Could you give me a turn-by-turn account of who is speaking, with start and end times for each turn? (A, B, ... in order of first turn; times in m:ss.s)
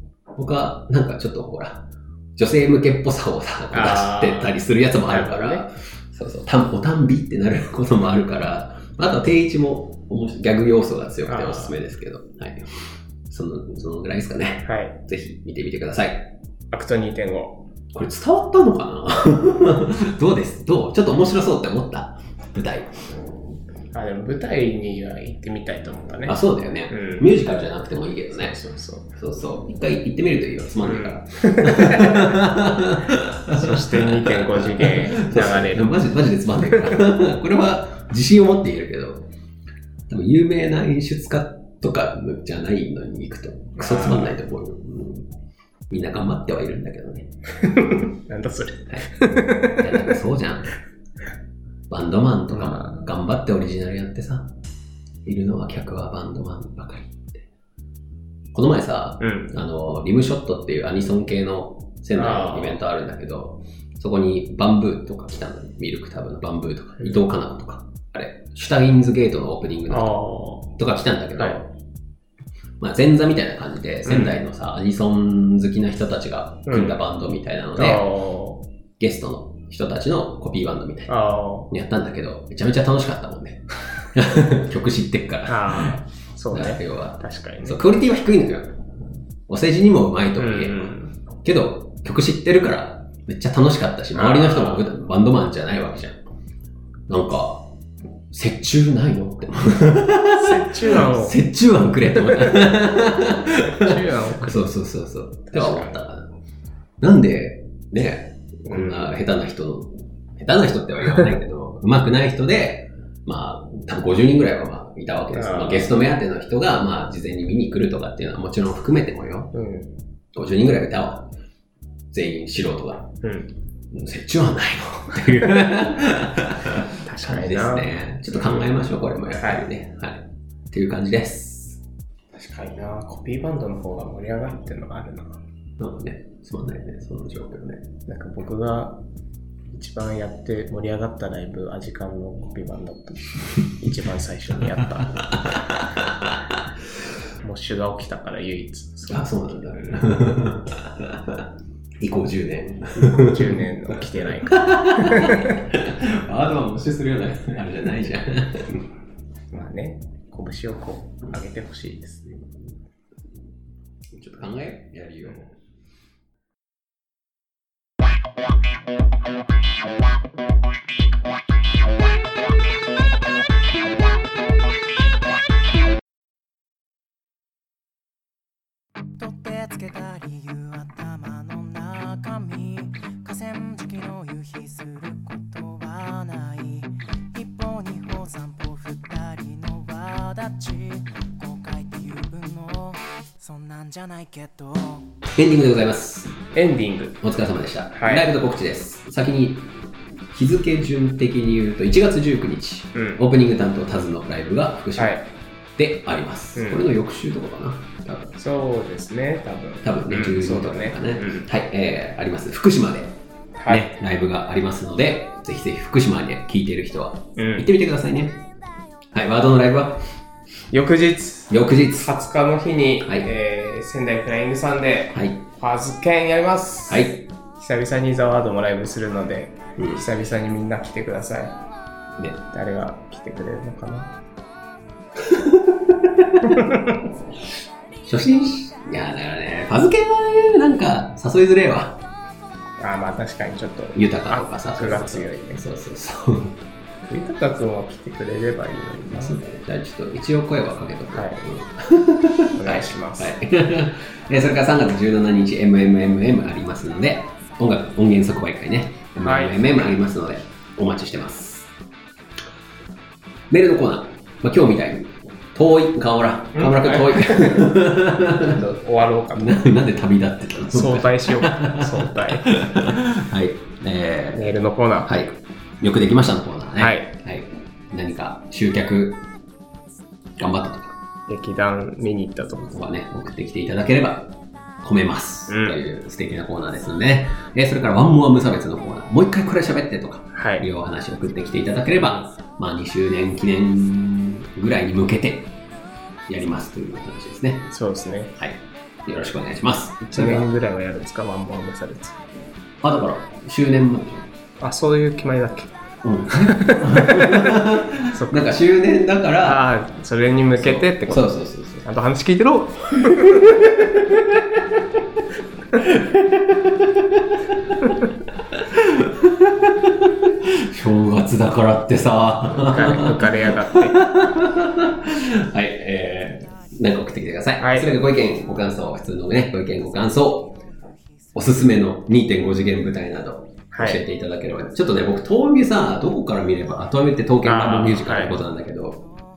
0:00.3-0:16.3 A
0:03.7-0:05.6 B
0:11.2-0:11.8 B
0:14.6-0:15.0 B
0:16.7-0:17.6 B
0:17.9-0:22.9 A
0:23.9-0:26.4 B
0:26.2-0:28.6 A
0:26.9-0:27.5 B
0:28.1-0:29.1 B
0:29.1-0:39.3 A
0:30.8-0:32.4 B
0:33.5-0:36.1 B
0:36.6-0:37.0 B
0:40.1-0:45.3 A
0:43.8-0:44.4 B
0:45.9-0:47.3 A
0:47.6-0:50.2 B
0:48.9-0:50.7 A
0:51.9-0:54.5 A
0:52.5-0:53.0 B
0:55.2-0:57.4 A
0:58.5-1:10.1 A
0:59.2-0:59.5 B
1:02.1-1:02.8 B
1:09.9-1:10.7 B
1:10.8-1:11.7 A
1:12.8-1:18.0 A
1:14.0-1:14.3 B
1:16.7-1:17.0 B
1:17.8-1:18.6 B
1:19.0-1:21.1 A
1:21.1-1:21.7 B
1:21.7-1:26.0 A
1:25.4-1:27.8 B
1:26.5-1:28.8 A
1:29.5-1:30.9 A
1:30.4-1:31.1 B
1:31.4-1:36.2 A
1:34.1-1:34.9 B
1:37.1-1:37.7 A
1:38.3-1:46.3 A
1:40.3-1:41.4 B
1:42.2-1:42.6 B
1:43.5-1:44.7 B
1:45.5-1:46.0 B
1:47.0-1:59.5 A
1:48.6-1:49.1 B
1:55.3-1:55.9 B
1:59.5-1:59.9 B
2:00.3-2:01.3 A
2:02.1-2:03.1 A
2:03.2-2:03.5 B
2:03.9-2:11.8 A
2:07.0-2:07.9 B
2:09.3-2:09.6 B
2:12.3-2:15.4 B
2:15.8-2:17.9 A
2:18.0-2:19.0 B
2:19.7-2:25.8 B
2:25.9-2:26.3 A
2:27.4-2:30.1 B
2:29.1-2:31.4 A
2:32.0-2:33.6 A
2:32.9-2:35.7 B
2:34.5-2:38.8 A
2:39.5-2:42.4 B
2:44.1-2:45.5 A
2:59.2-3:15.2 C
3:15.3-3:16.4 A
3:16.5-3:17.2 B
3:17.2-3:19.8 A
3:17.9-3:18.3 B
3:20.3-3:25.2 A
3:22.9-3:23.2 B
3:25.0-3:25.3 B
3:25.8-3:28.4 A
3:26.5-3:26.8 B
3:28.4-3:31.5 B
3:29.8-3:33.1 A
3:33.6-3:33.8 B
3:33.7-3:38.4 A
3:37.4-3:37.7 B
3:39.1-3:40.0 A
3:40.7-3:51.6 B
3:41.5-3:42.1 A
3:43.0-3:43.3 A
3:45.1-3:45.4 A
3:46.9-3:47.2 A
3:49.8-3:50.0 A
3:52.5-3:54.1 B
3:55.2-3:56.6 A
3:56.5-3:56.9 B
3:58.0-4:02.0 A
4:02.8-4:05.7 B
4:03.9-4:06.6 A
4:07.1-4:09.4 B
4:09.1-4:21.7 A
4:11.1-4:11.4 B
4:12.5-4:13.3 B
4:19.2-4:20.0 B
4:23.5-4:28.6 A
4:26.6-4:29.6 B
4:29.4-4:34.4 A
4:30.7-4:32.5 B
4:34.3-4:35.1 B
4:35.0-4:39.2 A
4:36.8-4:37.1 B
4:40.4-4:41.0 A
4:41.3-4:42.8 B
4:42.7-4:55.5 A
4:45.5-4:45.8 B
4:50.3-4:50.7 B
4:56.3-4:57.7 A
4:57.7-4:58.4 B
4:58.4-5:00.5 A
5:00.0-5:02.2 B
5:02.8-5:04.3 A
5:04.6-5:05.7 B
5:06.0-5:09.6 A
5:06.3-5:08.5 B
5:09.4-5:14.1 B
5:10.6-5:11.8 A
5:13.2-5:14.4 A
5:15.8-5:18.0 A
5:18.5-5:30.6 A
5:22.5-5:24.0 B
5:27.6-5:27.9 B
5:31.3-5:39.1 A
5:33.7-5:34.0 B
5:37.4-5:38.4 B